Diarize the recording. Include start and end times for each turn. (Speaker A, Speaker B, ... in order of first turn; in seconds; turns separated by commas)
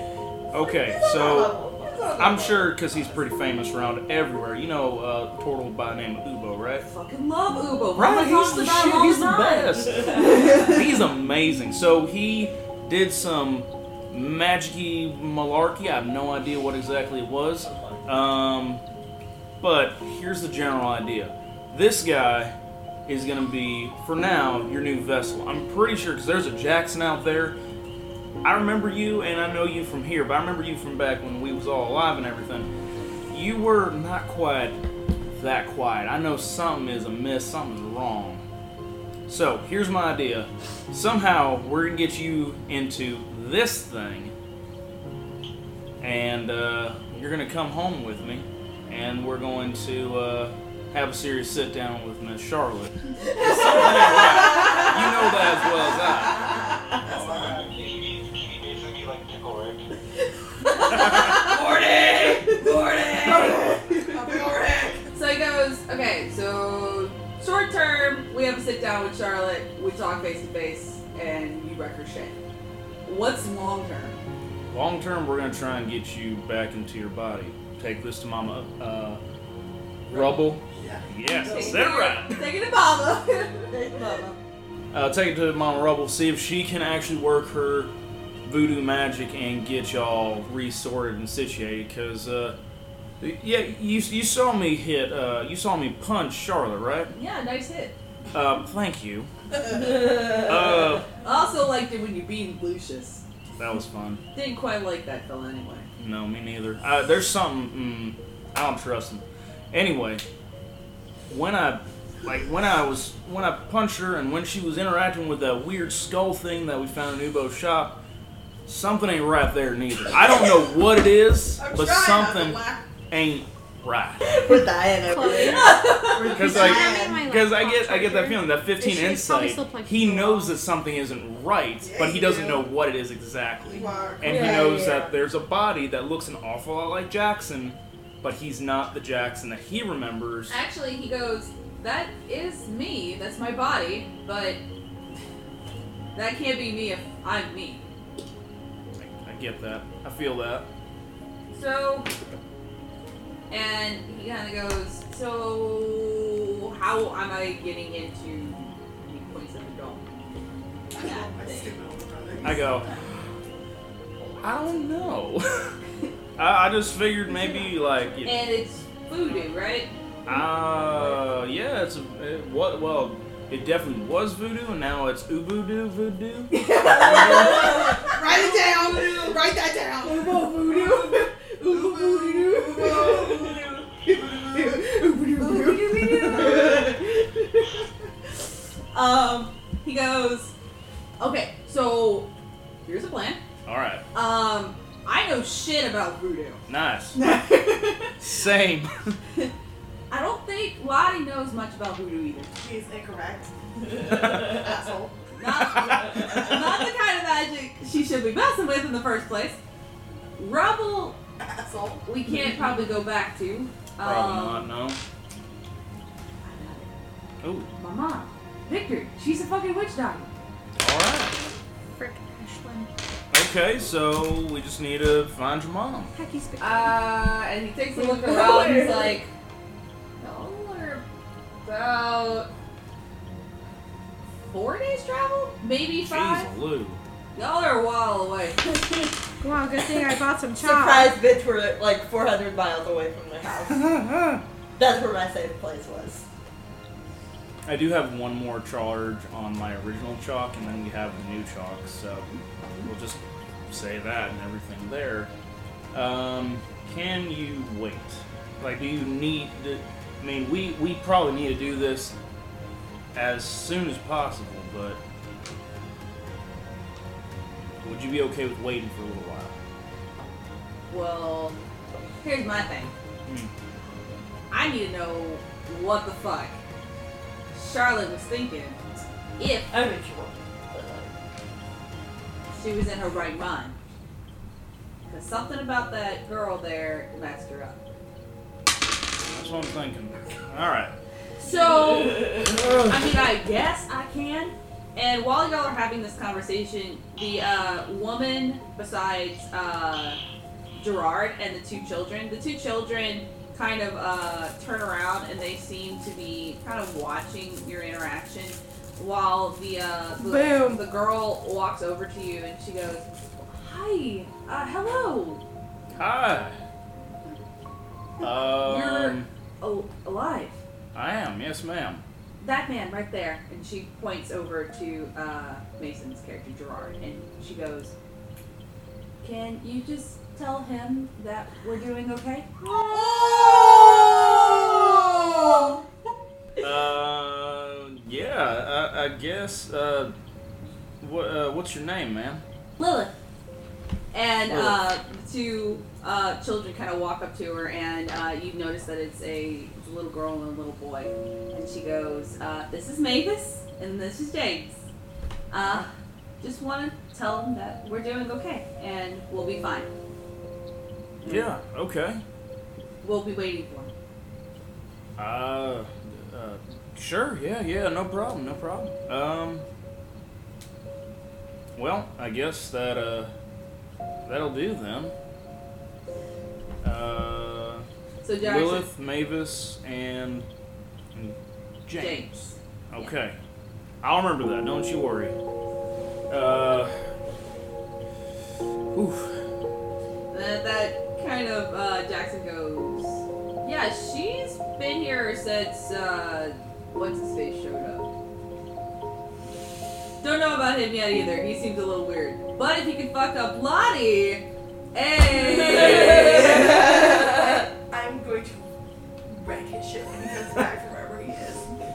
Speaker A: 0.5-1.6, Speaker B: 0.5-2.8, Speaker A: 2.1-6.9, Speaker C: 6.8-10.7, Speaker A: 7.9-18.8, Speaker A: 19.6-22.5, Speaker A: 23.1-27.6, Speaker A: 28.4-32.7, Speaker A: 33.3-34.8, Speaker A: 35.4-38.4, Speaker A: 39.3-44.3, Speaker A: 46.0-56.5, Speaker D: 57.0-59.9, Speaker E: 57.0-57.5, Speaker C: 60.8-63.8, Speaker E: 63.5-65.1, Speaker C: 65.1-72.4, Speaker C: 73.0-74.2, Speaker A: 74.7-79.2, Speaker C: 80.1-80.6, Speaker A: 80.1-82.5, Speaker E: 80.7-81.5, Speaker C: 81.2-83.8, Speaker B: 83.7-84.4, Speaker A: 84.9-87.9, Speaker A: 88.4-92.5, Speaker A: 93.2-97.1, Speaker C: 97.1-98.0, Speaker A: 98.3-99.3, Speaker A: 100.3-101.1, Speaker C: 101.2-103.2, Speaker A: 103.6-104.2, Speaker C: 104.3-105.9, Speaker A: 106.0-110.2, Speaker A: 111.3-118.0, Speaker A: 118.7-124.4, Speaker E: 121.5-123.0, Speaker B: 124.2-127.2, Speaker F: 125.0-130.6, Speaker C: 125.3-126.4, Speaker A: 126.2-140.6, Speaker E: 131.8-132.7, Speaker E: 133.6-134.7, Speaker B: 134.2-135.1, Speaker C: 140.5-144.6, Speaker C: 146.1-147.8, Speaker A: 149.0-150.7, Speaker C: 151.5-152.1, Speaker C: 153.5-160.0, Speaker E: 160.9-162.8, Speaker C: 161.0-161.8, Speaker A: 162.4-163.2, Speaker A: 164.4-165.7, Speaker A: 166.4-168.4, Speaker C: 168.2-169.9, Speaker A: 170.2-177.8, Speaker C: 170.7-171.1, Speaker C: 176.5-179.1, Speaker E: 177.2-184.8, Speaker C: 180.0-187.7, Speaker C: 188.9-190.5, Speaker C: 191.2-192.3, Speaker C: 192.8-193.4, Speaker A: 193.7-194.0, Speaker C: 194.1-196.6, Speaker A: 196.7-197.2, Speaker C: 197.1-198.1, Speaker A: 198.2-199.2, Speaker C: 200.1-202.5, Speaker E: 202.6-205.2, Speaker C: 205.4-209.6, Speaker A: 205.9-206.4, Speaker C: 210.3-211.2, Speaker E: 211.4-212.1, Speaker C: 212.0-214.7, Speaker A: 214.0-215.0, Speaker C: 216.4-216.9, Speaker A: 217.4-217.7, Speaker C: 217.8-220.3, Speaker A: 220.8-221.3, Speaker F: 221.9-222.9, Speaker A: 223.3-226.1, Speaker F: 226.1-227.1, Speaker C: 226.6-229.3, Speaker B: 227.9-229.2, Speaker C: 230.2-231.0, Speaker C: 231.6-232.5, Speaker C: 234.4-236.5, Speaker A: 236.0-237.0, Speaker C: 237.3-239.0, Speaker F: 239.4-241.2, Speaker B: 240.6-244.0, Speaker A: 243.8-244.4, Speaker B: 244.8-246.2, Speaker A: 247.7-252.3, Speaker C: 252.3-252.9, Speaker A: 252.8-253.2, Speaker A: 253.7-255.3, Speaker A: 255.9-262.1, Speaker A: 263.1-265.0, Speaker A: 267.8-269.5, Speaker C: 270.9-271.6, Speaker C: 272.2-272.9, Speaker C: 274.5-276.6, Speaker C: 277.5-278.8, Speaker C: 279.4-279.7, Speaker B: 279.7-281.2, Speaker C: 282.5-283.8, Speaker C: 285.1-287.9, Speaker A: 289.3-290.9, Speaker C: 291.4-300.2, Speaker B: 292.4-292.8, Speaker C: 300.8-315.4, Speaker F: 310.1-310.9, Speaker A: 315.9-316.6, Speaker A: 318.2-319.3, Speaker C: 318.2-320.6, Speaker A: 320.9-322.0, Speaker C: 322.4-327.9, Speaker C: 329.2-332.5, Speaker B: 332.6-335.7, Speaker E: 332.9-334.1, Speaker A: 336.6-340.1, Speaker A: 341.0-342.4, Speaker C: 342.8-343.1, Speaker C: 344.1-354.8, Speaker A: 344.5-344.9, Speaker C: 355.5-355.9, Speaker A: 355.6-355.9, Speaker C: 356.4-359.9, Speaker C: 361.2-361.5, Speaker A: 361.2-362.2, Speaker C: 363.0-363.9, Speaker A: 365.2-369.6, Speaker A: 371.8-373.3, Speaker A: 374.2-375.1, Speaker A: 376.8-377.8, Speaker C: 378.2-378.9, Speaker A: 378.4-380.5, Speaker A: 381.1-383.4, Speaker C: 381.9-383.1, Speaker A: 384.0-385.3, Speaker A: 386.3-386.9, Speaker A: 388.9-389.3, Speaker C: 390.3-398.1, Speaker C: 400.2-407.5, Speaker E: 405.6-408.7, Speaker E: 409.2-411.7